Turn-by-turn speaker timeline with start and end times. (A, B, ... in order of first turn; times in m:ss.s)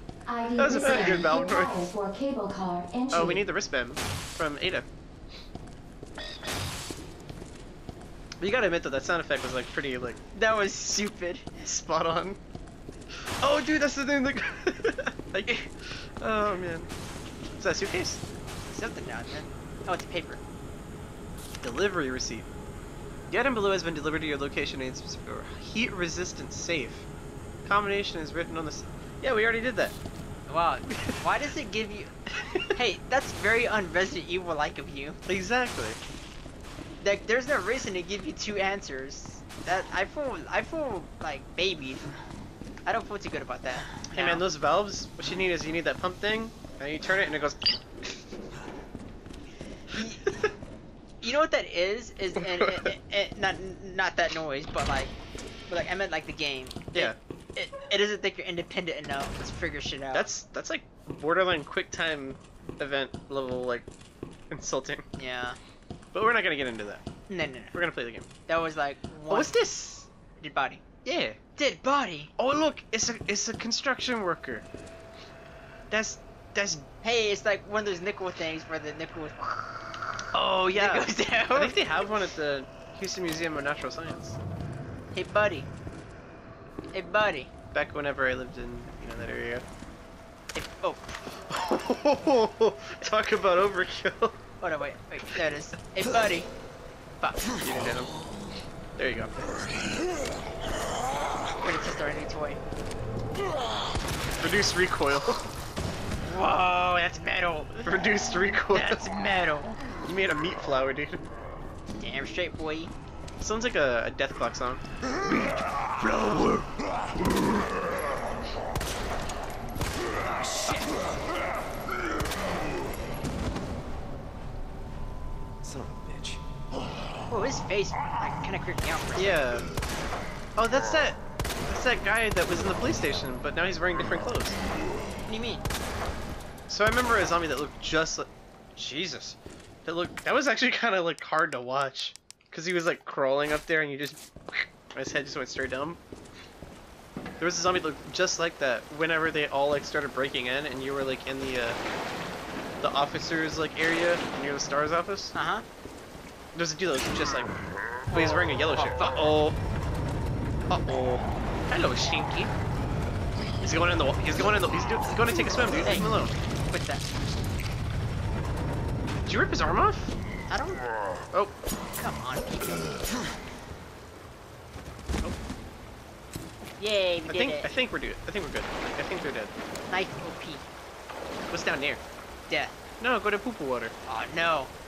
0:00.3-0:03.4 A
0:00.6-0:01.7 B
0:03.1-0:04.8 B
0:08.4-0:10.2 B
0:10.3-0:11.6 C
0:11.6-0:12.4 B
0:13.4-0:16.9 B
0:17.6-0:18.2 B
0:18.7-0:20.4 C
0:21.6-0:22.5 B
0:23.3-0:27.1 B
0:27.6-0:30.0 B
0:30.5-0:32.2 C
0:32.4-0:32.6 B
0:32.7-0:35.2 C
0:35.2-0:36.0 B
0:37.0-0:42.1 C
0:42.8-0:44.4 C
0:44.1-0:48.2 B
0:49.9-0:50.4 C
0:51.2-0:55.1 C
0:52.4-0:52.9 B
0:55.7-1:00.2 C
1:00.1-1:03.8 B
1:04.5-1:05.0 B
1:05.2-1:05.6 C
1:06.1-1:07.0 B
1:07.3-1:07.8 C
1:07.7-1:08.3 B
1:08.5-1:09.6 C
1:09.3-1:10.1 B
1:10.4-1:10.8 C
1:11.0-1:11.4 B
1:11.6-1:12.3 C
1:12.4-1:14.6 B
1:15.9-1:16.8 B
1:17.0-1:20.1 C
1:20.3-1:24.4 B
1:20.7-1:21.8 C
1:25.1-1:25.7 C
1:26.9-1:27.5 C
1:27.7-1:29.6 B
1:30.5-1:31.2 C
1:31.5-1:34.4 B
1:34.6-1:36.5 C
1:37.6-1:38.1 B
1:39.0-1:39.4 B
1:41.6-1:42.6 C
1:44.4-1:45.4 B
1:46.2-1:47.9 C
1:47.8-1:49.0 B
1:48.7-1:49.7 C
1:50.0-1:51.2 B
1:52.0-1:52.9 C
1:53.4-1:55.3 B
1:56.0-1:56.6 B
2:07.3-2:09.4 C
2:09.2-2:09.7 B
2:10.6-2:14.6 B
2:15.3-2:15.6 C
2:16.7-2:26.0 B
2:27.4-2:31.8 B
2:32.8-2:35.3 B
2:35.3-2:35.6 C
2:36.5-2:37.6 B
2:38.1-2:39.6 B
2:38.1-2:39.2 C
2:40.7-2:42.5 B
2:43.6-2:46.3 B
2:45.8-2:46.1 C
2:46.7-2:47.0 C
2:49.2-2:50.2 B
2:50.5-2:50.9 C
2:52.0-2:53.2 C
2:56.8-2:57.7 C
2:57.3-2:59.5 B
2:59.9-3:00.6 C
3:01.5-3:02.0 B
3:02.5-3:02.7 C
3:03.0-3:03.9 B
3:04.0-3:04.7 C